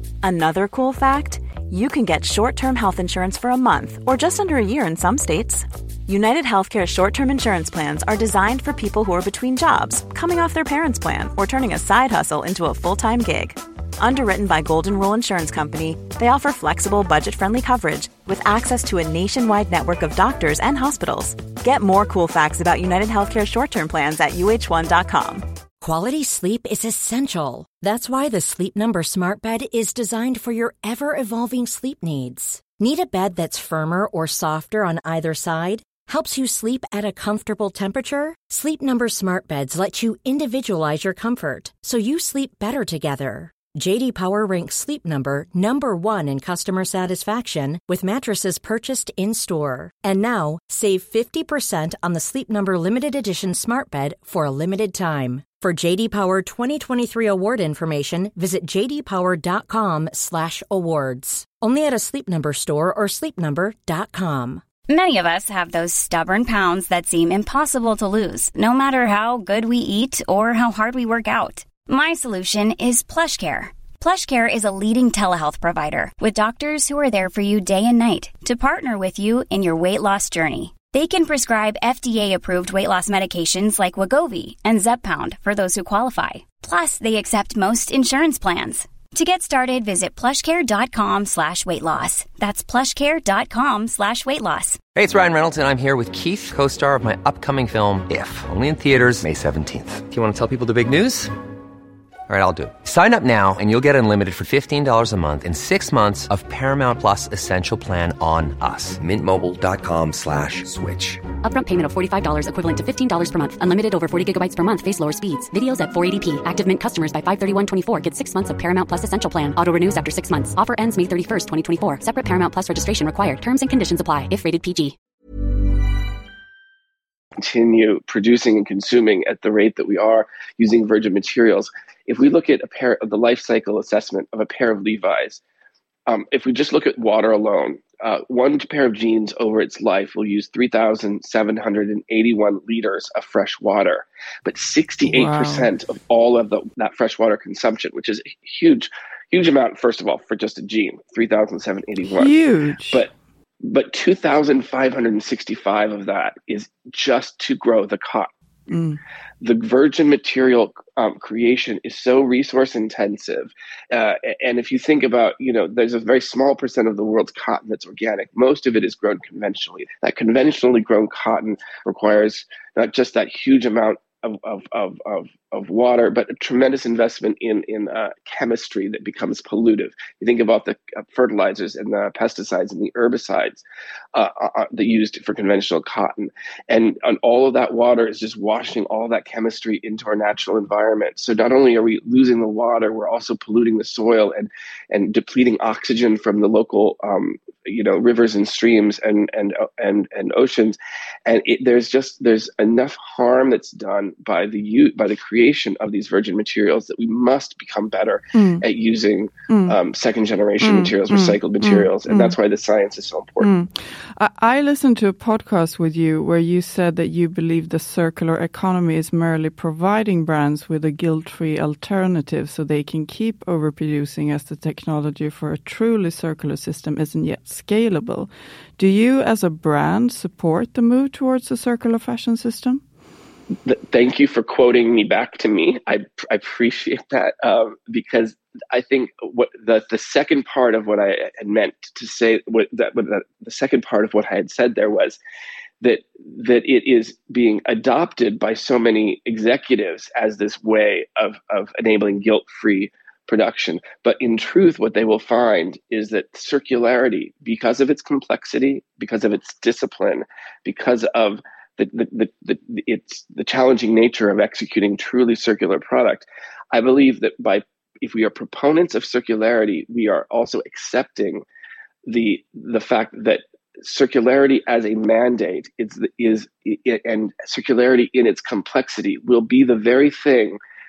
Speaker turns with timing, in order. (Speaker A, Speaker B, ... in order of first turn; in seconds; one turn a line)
Speaker A: 0.2-25.4
Speaker B: 25.8-64.6
Speaker C: 64.9-94.8
Speaker D: 94.9-101.3
Speaker D: 102.3-111.2
Speaker E: 111.4-125.0
Speaker F: 127.4-135.4
Speaker F: 136.1-152.3
Speaker G: 145.0-145.7
Speaker G: 152.1-153.0
Speaker F: 153.6-158.3
Speaker G: 158.7-159.0
Speaker F: 159.4-183.6
Speaker F: 184.1-213.5
Speaker G: 208.3-208.6
Speaker G: 209.5-209.8
Speaker G: 210.6-212.3
Speaker G: 213.4-232.8
Speaker F: 233.7-245.2
Speaker F: 245.8-271.4
Speaker F: 272.1-280.6